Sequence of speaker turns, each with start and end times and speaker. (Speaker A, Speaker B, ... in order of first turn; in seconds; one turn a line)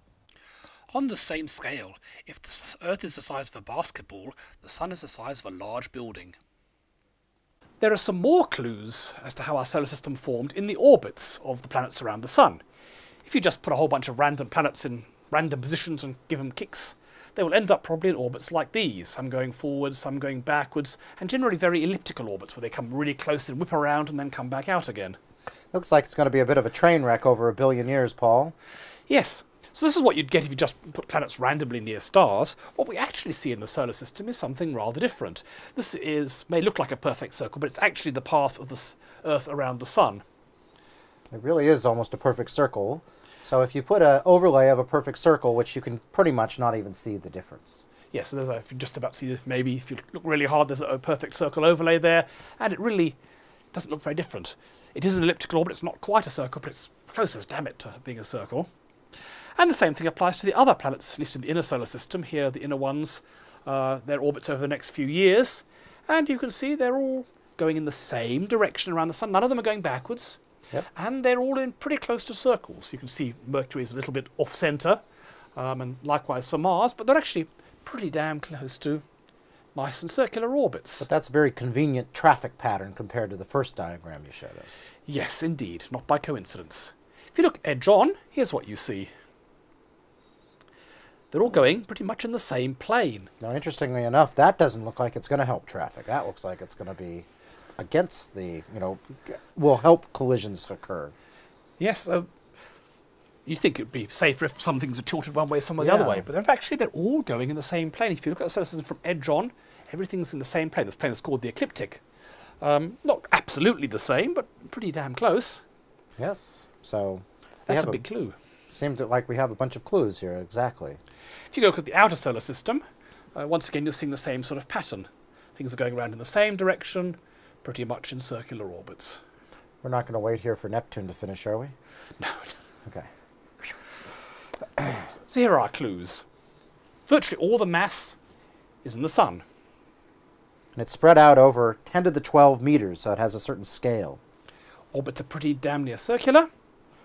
Speaker A: 0.9-6.4
Speaker A: 7.8-12.6
Speaker A: 13.2-25.2
Speaker B: 25.7-28.5
Speaker A: 29.1-40.2
Speaker B: 41.3-47.8
Speaker A: 48.1-53.2
Speaker A: 53.7-58.7
Speaker A: 59.6-70.4
Speaker A: 70.9-75.0
Speaker A: 75.5-79.0
Speaker A: 79.7-81.1
Speaker B: 81.0-84.9
Speaker A: 85.1-89.1
Speaker A: 91.3-93.3
Speaker B: 93.4-97.2
Speaker B: 97.8-101.1
Speaker A: 101.8-102.3
Speaker A: 103.5-112.0
Speaker B: 105.8-106.2
Speaker A: 112.6-115.6
Speaker B: 116.2-118.0
Speaker A: 117.7-118.3
Speaker B: 118.7-121.0
Speaker A: 121.5-122.8
Speaker A: 123.3-129.2
Speaker B: 129.8-131.7
Speaker A: 132.2-132.6
Speaker A: 134.9-136.2
Speaker A: 137.1-138.2
Speaker A: 138.8-139.4
Speaker B: 140.8-144.2
Speaker A: 144.9-146.5